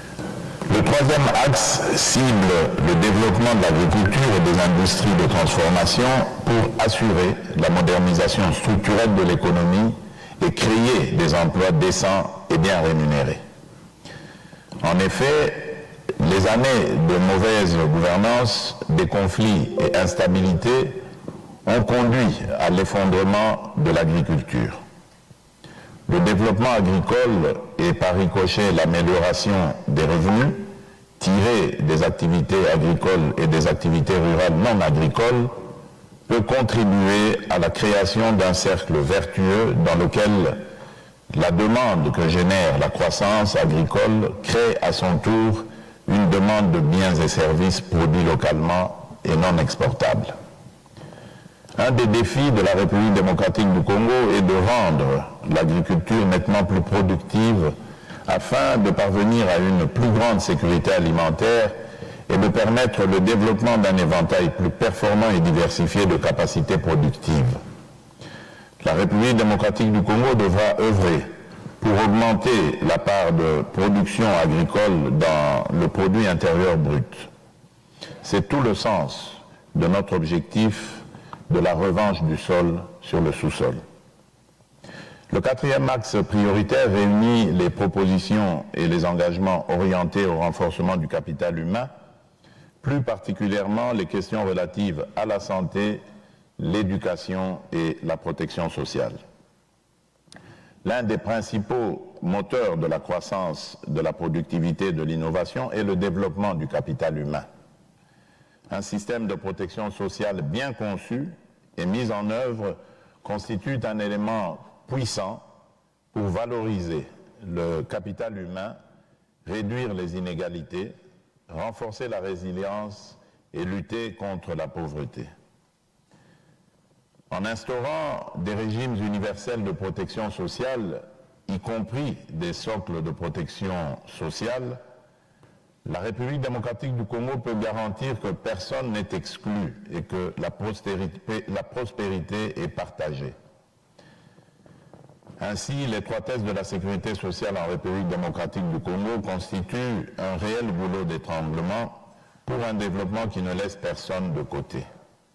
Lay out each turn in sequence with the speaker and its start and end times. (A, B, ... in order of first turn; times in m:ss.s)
0:00.7-0:13.4 A
0:14.8-0:21.0 A
0:21.6-0:24.8 A
0:26.1-0:35.5 A
0:36.3-0:40.6 A
0:41.3-0:50.3 A
0:51.8-0:57.8 A
0:58.3-1:01.8 A
1:02.3-1:07.6 A
1:08.8-1:11.3 A
1:11.8-1:17.3 A
1:18.2-1:23.8 A
1:25.3-1:31.9 A
1:32.8-1:36.0 A
1:36.6-1:39.2 A
1:40.8-1:47.4 A
1:48.7-1:55.4 A
1:56.1-1:58.8 A
1:59.5-2:00.9 A
2:01.5-2:05.3 A
2:07.3-2:14.8 A
2:15.9-2:23.4 A
2:25.4-2:34.8 A